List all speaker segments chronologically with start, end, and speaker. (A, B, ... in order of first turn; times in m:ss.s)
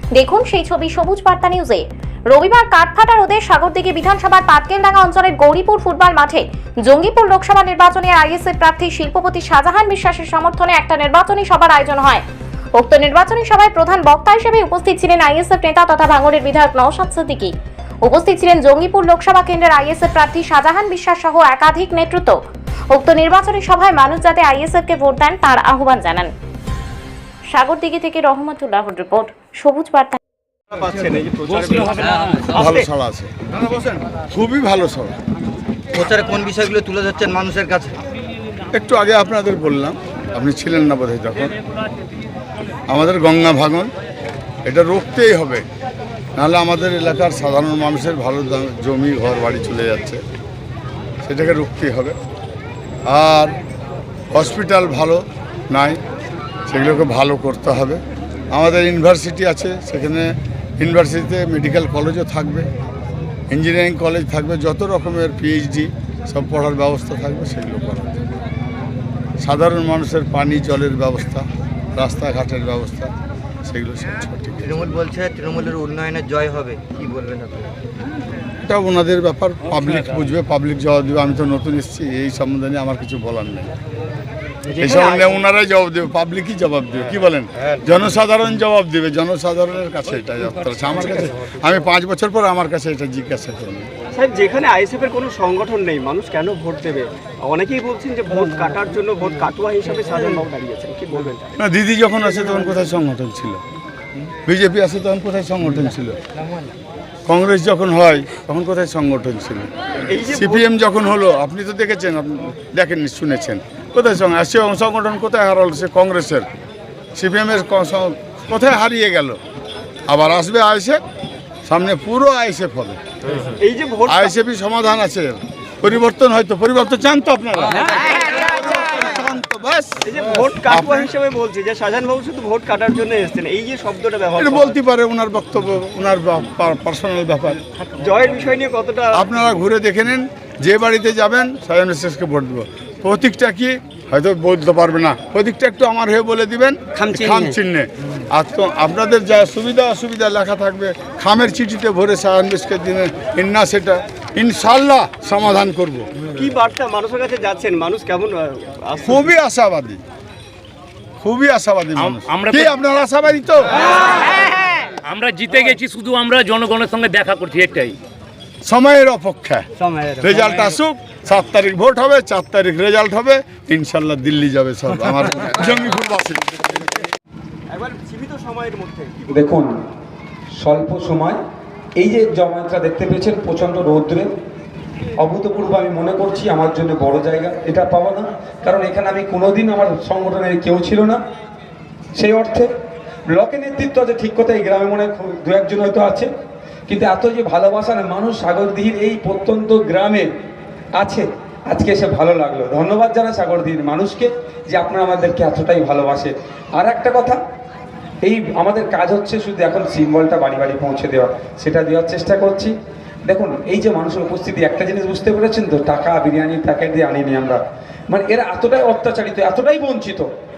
0:00.2-0:17.5 A
0:18.0-0:22.4 A
0:22.9-0:26.3 A
0:27.5-0:30.2 A
0:30.7-0:32.9 B
0:31.5-0:32.6 C
0:32.5-0:35.2 D
0:35.9-0:37.9 E
0:38.7-0:41.6 D
0:42.9-0:43.9 D
0:44.6-0:45.6 D
0:46.4-0:50.2 D
0:51.2-0:52.2 D
0:53.1-0:53.6 D
0:54.3-0:56.0 D
0:56.7-0:58.0 D
0:58.5-1:02.7 D
1:03.5-1:08.2 D
1:09.4-1:13.1 D
1:13.7-1:15.0 D
1:14.6-1:17.7 E
1:18.7-1:23.7 D
1:24.8-1:33.9 D
1:24.8-1:25.2 B
1:34.1-1:41.5 B
1:41.6-1:43.6 D
1:44.5-1:46.2 D
1:47.3-1:49.7 D
1:50.1-1:50.6 B
1:50.3-1:56.5 D
1:57.2-1:59.4 D
2:00.1-2:01.0 D
2:01.7-2:03.0 D
2:03.6-2:04.4 B
2:04.1-2:10.1 D
2:10.1-2:14.8 B
2:10.7-2:11.0 D
2:14.4-2:17.6 D
2:18.0-2:19.2 B
2:19.1-2:36.1 D
2:36.4-2:39.3 B
2:39.0-2:40.0 D
2:41.2-2:43.8 D
2:42.0-2:42.7 C
2:45.0-2:48.0 C
2:48.6-2:49.7 D
2:49.9-2:50.2 B
2:50.2-2:56.8 D
2:57.7-2:59.4 B
2:59.3-2:59.7 F
3:00.6-3:01.4 F
3:02.0-3:04.3 F
3:05.2-3:11.2 F
3:12.2-3:12.7 F
3:13.3-3:16.3 F
3:16.9-3:20.3 F
3:21.0-3:27.4 F
3:28.2-3:32.7 F
3:33.3-3:40.3 F